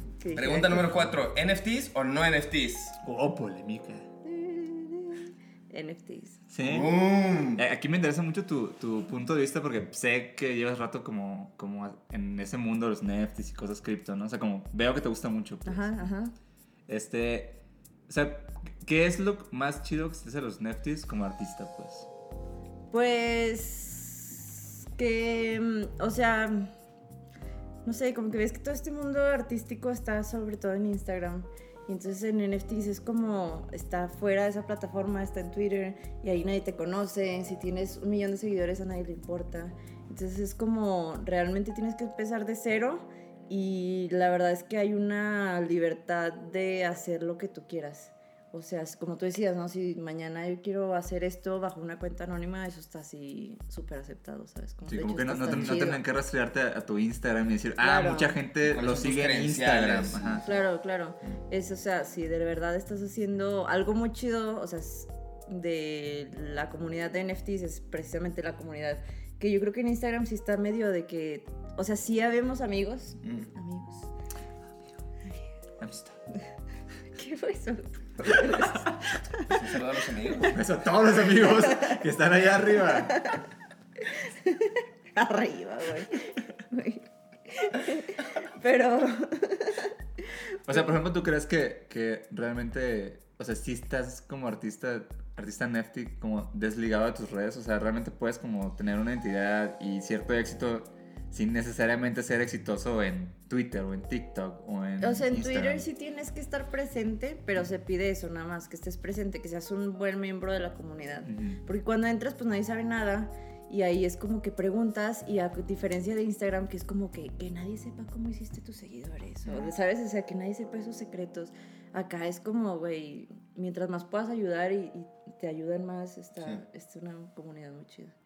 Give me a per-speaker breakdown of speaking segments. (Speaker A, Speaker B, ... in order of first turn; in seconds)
Speaker A: 0.2-0.9, 4.2-6.4, 15.7-16.3, 22.9-26.7, 27.8-56.0, 57.8-58.4, 60.4-74.1, 77.1-78.9, 81.7-82.0, 83.1-83.4, 84.1-89.9, 105.0-128.1
Speaker B: 0.3-3.0, 6.6-7.6, 58.6-60.6, 73.2-73.5, 79.5-80.5, 119.4-119.7
Speaker C: 3.0-4.1, 6.5-7.0, 7.5-16.1, 16.9-17.6, 18.1-22.1, 54.9-60.4, 75.8-76.2, 78.5-78.9, 80.4-83.2, 90.7-105.8, 111.2-111.6